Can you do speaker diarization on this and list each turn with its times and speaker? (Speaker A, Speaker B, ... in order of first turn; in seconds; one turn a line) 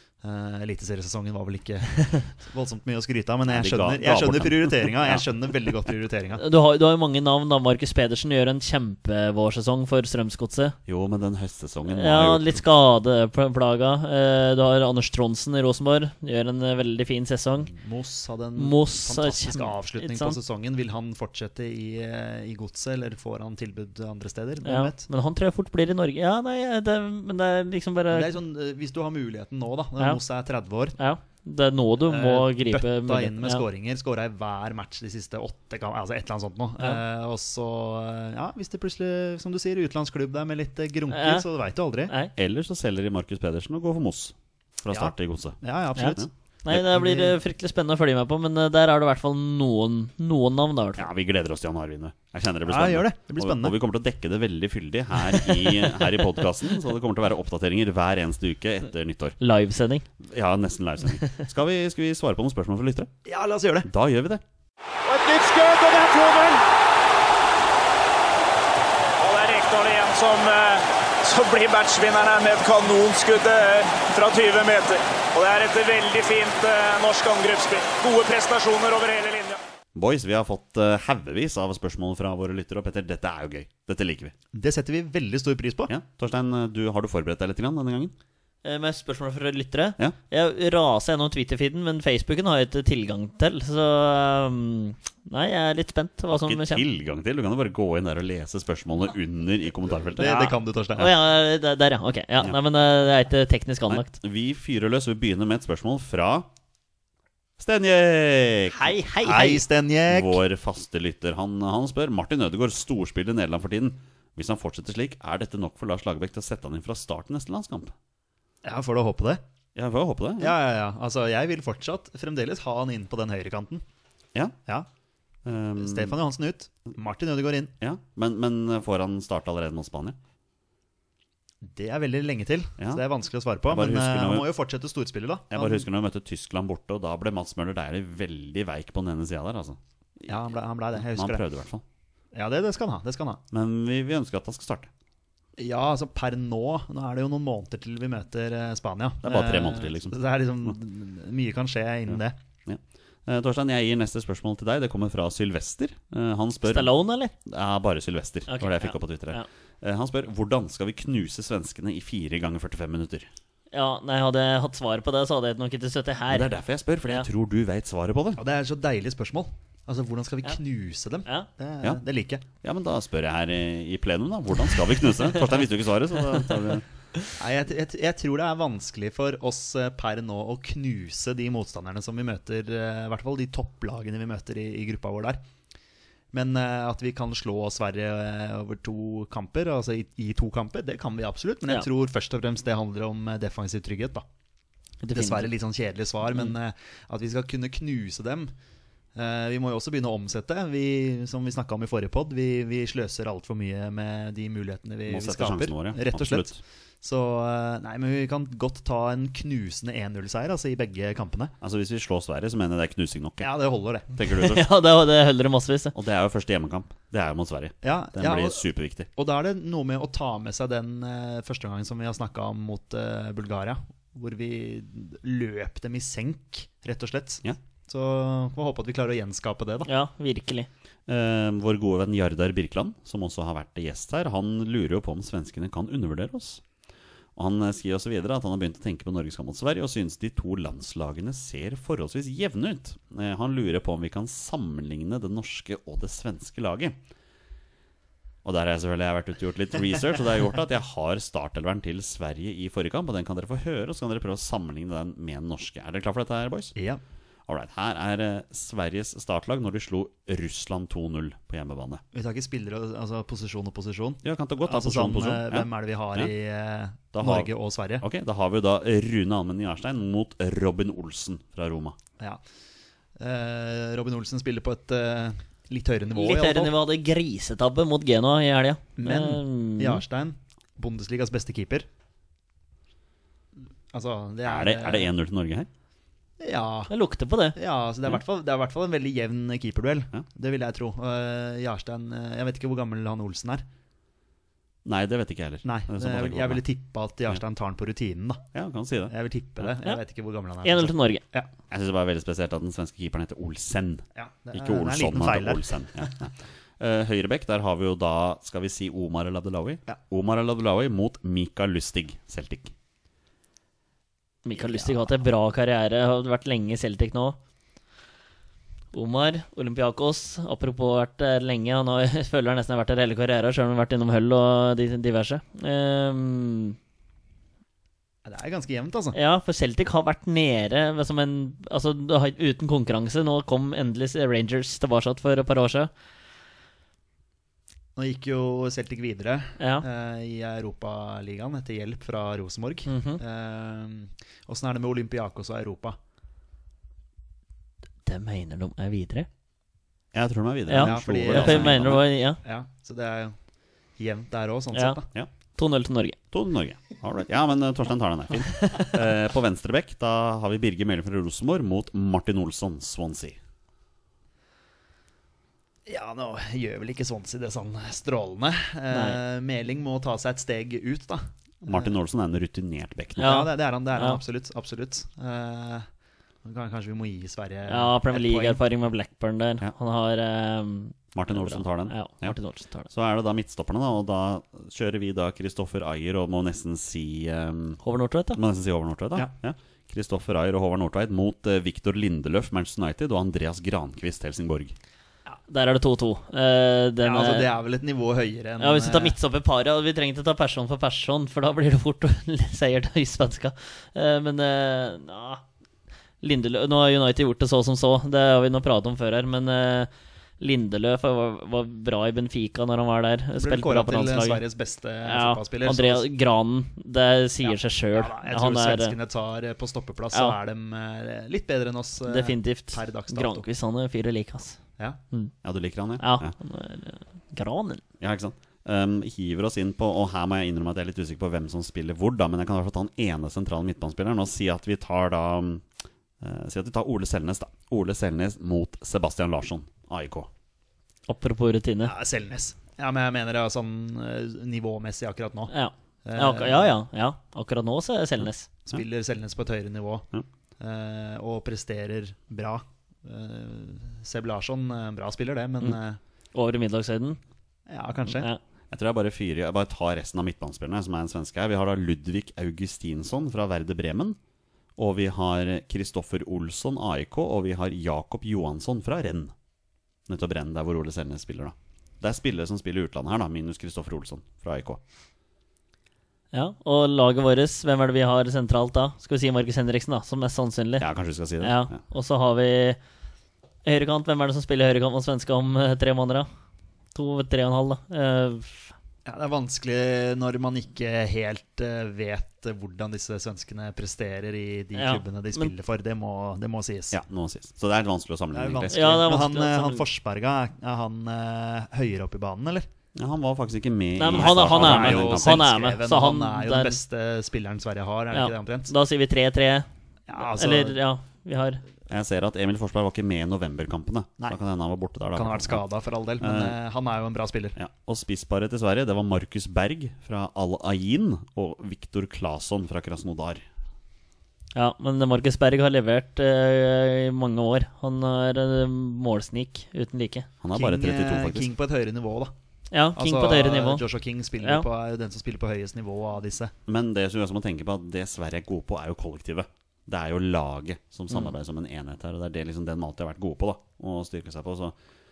Speaker A: 0.2-6.4
Speaker B: 3.5-5.2
Speaker C: 6.4-10.8
Speaker B: 10.9-12.6
Speaker C: 11.9-17.7
Speaker A: 17.7-25.1
Speaker C: 18.6-20.4
Speaker C: 24.6-28.3
Speaker A: 28.1-31.0
Speaker C: 31.0-33.6
Speaker A: 32.0-42.1
Speaker C: 41.1-41.5
Speaker B: 42.4-45.6
Speaker A: 44.9-47.4
Speaker C: 46.0-51.1
Speaker B: 51.0-59.4
Speaker A: 52.7-53.8
Speaker C: 55.4-55.9
Speaker C: 59.4-60.0
Speaker B: 60.2-63.1
Speaker A: 63.2-63.9
Speaker B: 63.8-64.4
Speaker D: 65.0-66.6
Speaker D: 69.2-79.6
Speaker B: 79.9-84.3
Speaker A: 84.5-85.9
Speaker B: 85.9-88.1
Speaker C: 88.6-96.8
Speaker B: 96.3-100.4
Speaker A: 100.2-101.1
Speaker C: 100.2-104.1
Speaker B: 103.9-106.5
Speaker B: 107.6-108.9
Speaker C: 108.7-109.6
Speaker A: 109.2-110.4
Speaker B: 110.1-117.9
Speaker A: 118.6-119.4
Speaker B: 119.7-120.5
Speaker A: 120.4-123.8
Speaker B: 125.4-126.2
Speaker A: 125.8-127.7
Speaker B: 127.8-130.2
Speaker A: 131.6-135.8
Speaker B: 133.7-134.5
Speaker B: 135.5-139.8
Speaker A: 140.3-141.4
Speaker B: 141.0-141.8
Speaker A: 142.3-143.4
Speaker B: 143.5-144.9
Speaker A: 145.6-152.3
Speaker B: 149.2-150.7
Speaker B: 152.1-156.9
Speaker C: 156.7-157.3
Speaker B: 157.4-163.3
Speaker C: 158.5-159.4
Speaker C: 163.7-166.5
Speaker B: 166.3-168.4
Speaker A: 168.4-172.4
Speaker B: 172.6-176.8
Speaker A: 177.3-185.4
Speaker A: 186.3-194.2
Speaker C: 195.0-195.5
Speaker A: 195.1-198.5
Speaker A: 199.2-211.5
Speaker B: 205.1-206.6
Speaker B: 211.6-213.5
Speaker A: 213.4-214.1
Speaker B: 214.1-214.7
Speaker C: 214.3-215.9
Speaker B: 215.9-219.1
Speaker A: 217.8-218.6
Speaker A: 219.1-229.9
Speaker C: 229.8-230.7
Speaker B: 231.1-236.6
Speaker B: 237.3-247.0
Speaker B: 248.4-256.7
Speaker A: 256.8-257.0
Speaker B: 257.5-262.0
Speaker A: 262.1-268.0
Speaker B: 264.2-266.3
Speaker B: 267.1-272.0
Speaker A: 273.2-276.7
Speaker C: 276.1-280.0
Speaker A: 279.0-281.9
Speaker A: 283.9-285.1
Speaker B: 284.4-285.7
Speaker A: 286.4-286.9
Speaker C: 286.9-287.6
Speaker A: 287.6-293.6
Speaker B: 294.8-296.6
Speaker A: 295.6-298.4
Speaker B: 298.5-299.1
Speaker A: 299.1-301.5
Speaker C: 300.6-301.2
Speaker B: 301.7-312.7
Speaker A: 304.1-306.1
Speaker C: 314.4-317.4
Speaker A: 314.7-315.0
Speaker C: 318.9-326.8
Speaker A: 328.2-329.2
Speaker C: 329.1-335.9
Speaker A: 337.9-346.0
Speaker C: 339.6-339.8
Speaker C: 342.9-343.2
Speaker C: 348.1-349.3
Speaker B: 350.1-352.0
Speaker C: 350.7-352.4
Speaker A: 350.7-353.4
Speaker A: 354.0-355.1
Speaker C: 355.6-356.2
Speaker B: 356.3-363.4
Speaker C: 358.5-358.9
Speaker A: 365.9-371.9
Speaker C: 368.9-369.2
Speaker B: 371.6-373.3
Speaker C: 373.2-374.2
Speaker A: 373.2-375.9
Speaker A: 376.4-378.6
Speaker C: 377.7-382.9
Speaker B: 381.1-382.4
Speaker B: 382.9-387.8
Speaker C: 387.8-388.4
Speaker B: 388.3-394.7
Speaker C: 395.5-397.5
Speaker A: 397.0-399.1
Speaker C: 398.6-405.4
Speaker C: 406.2-414.4
Speaker A: 413.4-416.0
Speaker C: 415.0-418.9
Speaker A: 417.4-423.4
Speaker C: 422.0-424.6
Speaker B: 425.4-426.3
Speaker C: 426.0-427.8
Speaker B: 428.0-435.6
Speaker B: 436.2-440.3
Speaker C: 441.1-441.9
Speaker A: 441.8-445.5
Speaker C: 445.5-448.5
Speaker A: 446.0-446.7
Speaker A: 448.6-450.1
Speaker A: 450.6-456.0
Speaker C: 456.3-457.2
Speaker A: 457.7-458.3
Speaker C: 458.1-458.4
Speaker B: 458.7-464.2
Speaker B: 464.8-469.3
Speaker B: 470.1-474.8
Speaker C: 476.3-480.9
Speaker B: 480.8-481.8
Speaker C: 481.4-482.8
Speaker C: 483.6-486.3
Speaker C: 486.9-488.7
Speaker A: 489.0-497.0
Speaker C: 494.7-495.5
Speaker B: 496.9-498.9
Speaker A: 498.3-502.6
Speaker C: 498.7-499.8
Speaker B: 502.9-505.5
Speaker C: 504.0-506.8
Speaker A: 504.1-508.7
Speaker C: 508.1-511.6
Speaker A: 510.1-510.8
Speaker B: 511.9-515.6
Speaker A: 515.1-517.5
Speaker B: 516.2-516.5
Speaker B: 517.5-523.4
Speaker C: 524.5-530.3
Speaker B: 530.4-531.5
Speaker A: 530.5-532.3
Speaker C: 532.7-533.8
Speaker A: 533.0-536.5
Speaker C: 534.4-534.6
Speaker B: 536.7-544.8